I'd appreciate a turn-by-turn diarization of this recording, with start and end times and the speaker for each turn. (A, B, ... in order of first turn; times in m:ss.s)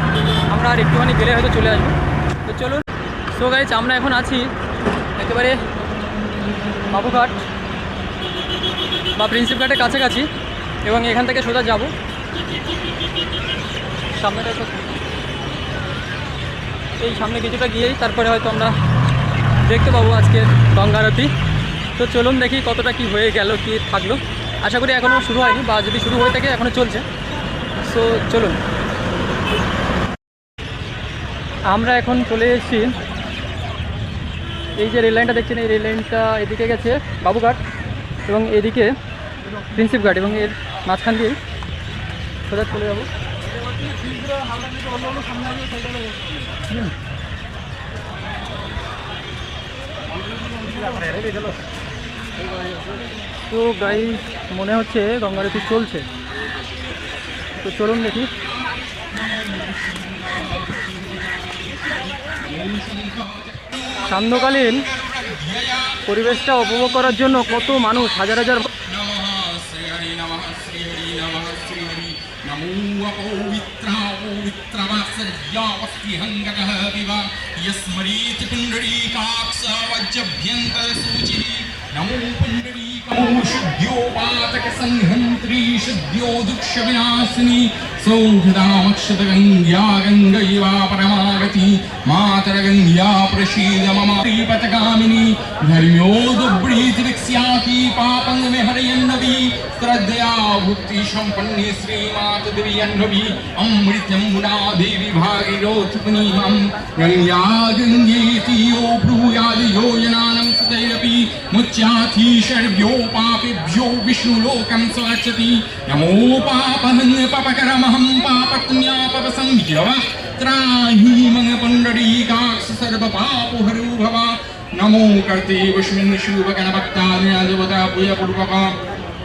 0:00.5-0:04.5 A
0:05.2-0:05.6 A
0:06.9-0:07.4 A
0:09.1-0:10.3 A
0:10.8-0:11.9 A
0:14.1-0:14.9 A
0:17.0-0:18.7 A
0:19.6-0:21.3 A
0:22.0-0:27.0 A
0:27.8-0:28.6 A
0:31.7-0:32.9 A
0:34.7-0:37.6 A
0:38.3-0:38.9 A
0:39.6-0:41.4 A
0:42.4-0:43.1 A
0:53.5-0:56.1 A
0:57.6-0:58.3 A
0:58.9-1:04.0 B
1:04.0-1:04.8 A
1:04.9-1:06.0 B
1:06.0-1:08.7 A
1:08.8-2:08.7 B